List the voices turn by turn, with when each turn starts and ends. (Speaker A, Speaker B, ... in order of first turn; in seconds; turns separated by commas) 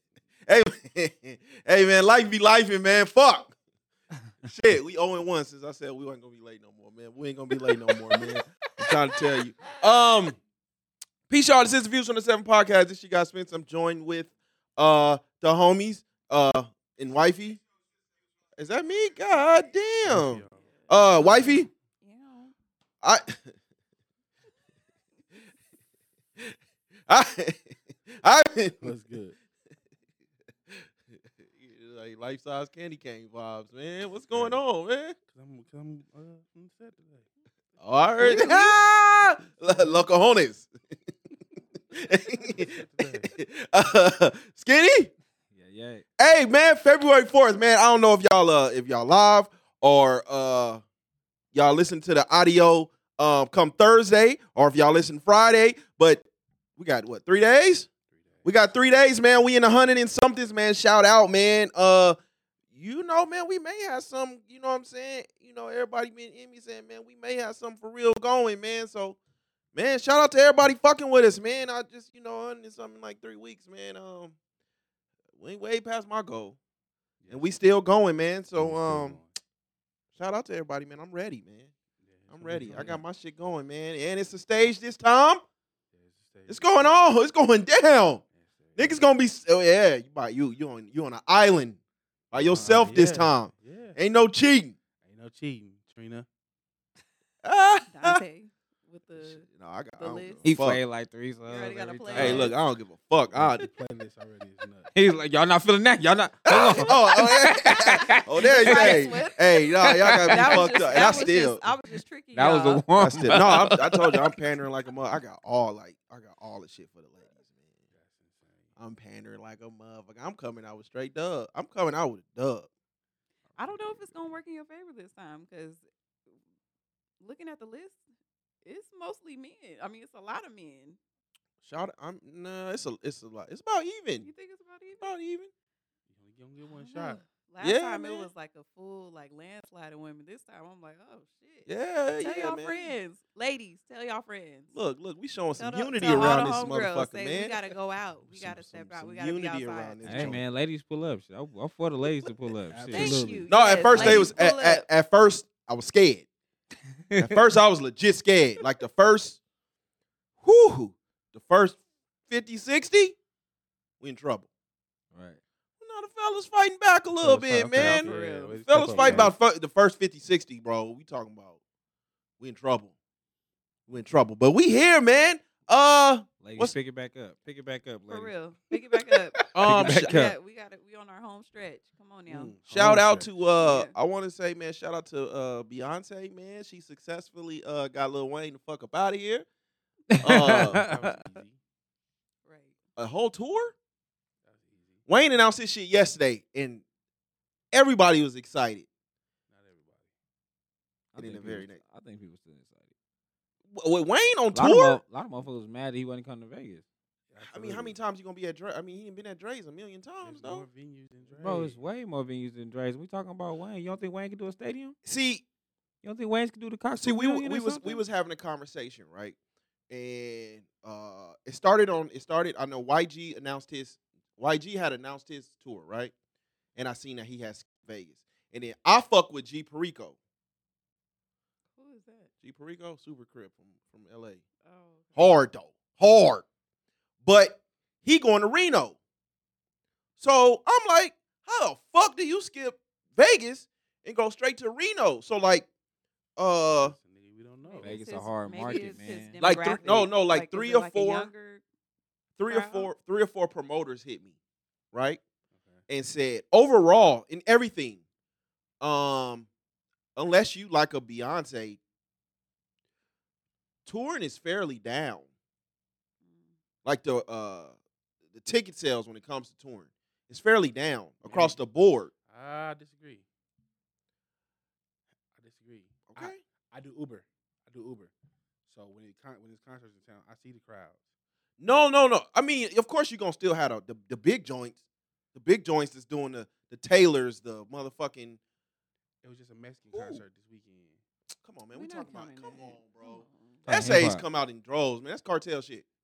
Speaker A: 0.5-3.5, Speaker A: 4.4-10.4, Speaker A: 11.3-17.6, Speaker A: 18.6-21.7, Speaker B: 20.1-20.7, Speaker C: 20.6-22.5, Speaker A: 23.0-23.5, Speaker A: 26.4-28.9, Speaker B: 28.8-29.4, Speaker A: 31.6-35.2, Speaker B: 34.3-34.6, Speaker B: 35.3-37.3, Speaker A: 37.8-40.7, Speaker B: 38.2-38.7, Speaker B: 39.7-40.0, Speaker A: 41.9-45.1, Speaker B: 42.3-43.4, Speaker D: 45.5-46.0, Speaker A: 46.2-50.8, Speaker A: 51.5-56.2, Speaker A: 56.8-57.9, Speaker B: 58.1-58.5, Speaker A: 58.4-62.2, Speaker A: 62.7-69.2, Speaker A: 69.7-74.3, Speaker A: 75.4-76.6, Speaker B: 77.2-77.5, Speaker A: 77.3-79.2, Speaker B: 78.6-79.3, Speaker A: 80.2-81.7, Speaker B: 82.0-83.0, Speaker A: 82.3-85.4, Speaker B: 85.9-86.9, Speaker A: 86.5-88.2, Speaker B: 88.4-89.0, Speaker A: 88.8-91.8, Speaker A: 92.3-94.8, Speaker B: 92.3-94.0, Speaker B: 95.0-96.3, Speaker A: 97.4-98.2, Speaker C: 97.9-99.5, Speaker A: 99.2-100.8, Speaker C: 100.0-100.5, Speaker D: 100.4-102.5, Speaker C: 101.5-102.5, Speaker A: 102.1-103.7, Speaker B: 103.3-104.9, Speaker D: 104.9-109.2, Speaker A: 106.5-111.7, Speaker C: 107.9-109.5, Speaker D: 109.9-110.7, Speaker C: 110.3-112.9, Speaker D: 112.3-114.2, Speaker A: 113.0-117.6, Speaker B: 117.9-118.7, Speaker A: 118.8-122.7, Speaker B: 123.5-124.4, Speaker C: 123.6-125.8, Speaker C: 127.2-128.0, Speaker C: 128.6-131.0, Speaker A: 131.6-134.3, Speaker C: 134.2-135.1, Speaker A: 135.0-135.5, Speaker B: 136.1-137.2, Speaker C: 136.6-141.7, Speaker A: 137.6-138.3, Speaker A: 141.7-142.9, Speaker C: 142.2-144.8, Speaker A: 144.7-147.7, Speaker C: 145.6-150.4, Speaker A: 148.3-150.5, Speaker D: 150.0-153.4, Speaker B: 152.7-154.2, Speaker C: 152.9-154.9, Speaker A: 153.5-156.3, Speaker D: 153.9-154.3, Speaker D: 157.1-157.4, Speaker A: 157.2-159.4, Speaker A: 160.4-163.2, Speaker A: 164.0-164.5, Speaker D: 165.1-165.4, Speaker A: 165.8-171.6, Speaker B: 167.2-169.3, Speaker C: 167.7-169.3, Speaker D: 169.0-169.3, Speaker A: 172.4-172.9, Speaker A: 173.9-176.8, Speaker D: 176.4-178.3, Speaker C: 178.1-182.6, Speaker B: 178.9-179.3, Speaker A: 179.5-180.2, Speaker D: 179.6-180.4, Speaker B: 182.3-183.3, Speaker A: 182.7-189.5, Speaker C: 183.6-183.9, Speaker D: 190.1-191.2, Speaker A: 190.2-190.8, Speaker B: 190.5-191.6, Speaker C: 192.4-192.8, Speaker A: 193.0-193.7, Speaker B: 194.4-195.0, Speaker A: 195.1-196.8, Speaker A: 197.7-198.9, Speaker B: 199.5-200.1, Speaker D: 201.1-202.9, Speaker A: 201.2-201.8, Speaker A: 203.7-205.0, Speaker D: 204.5-206.8, Speaker B: 207.3-208.0, Speaker A: 207.5-210.7, Speaker B: 210.2-211.8, Speaker D: 211.4-214.9, Speaker A: 215.1-215.4, Speaker D: 216.0-218.0, Speaker A: 217.0-219.4, Speaker A: 219.9-226.1, Speaker A: 226.8-230.2, Speaker C: 231.8-232.3, Speaker A: 232.4-234.4, Speaker C: 234.6-235.4, Speaker A: 235.2-236.4, Speaker A: 237.2-239.0, Speaker A: 240.2-245.7, Speaker A: 246.4-246.9, Speaker B: 246.8-248.0, Speaker C: 247.6-251.6, Speaker D: 247.8-250.0, Speaker B: 248.6-249.1, Speaker A: 249.4-251.3, Speaker A: 252.4-254.4, Speaker C: 252.5-252.9, Speaker A: 254.9-255.2, Speaker B: 255.5-255.8, Speaker A: 255.9-258.0, Speaker A: 258.8-259.5, Speaker A: 260.1-261.8, Speaker A: 263.9-265.3, Speaker C: 266.2-266.5, Speaker A: 266.8-267.8, Speaker A: 268.4-272.1, Speaker B: 271.2-271.6, Speaker B: 272.3-273.2, Speaker B: 275.4-278.1, Speaker A: 276.1-276.4, Speaker B: 278.7-281.0, Speaker A: 281.6-284.8, Speaker A: 285.4-288.4, Speaker B: 289.2-291.0, Speaker D: 289.9-290.2, Speaker A: 291.4-295.9, Speaker C: 291.7-293.7, Speaker D: 293.7-294.2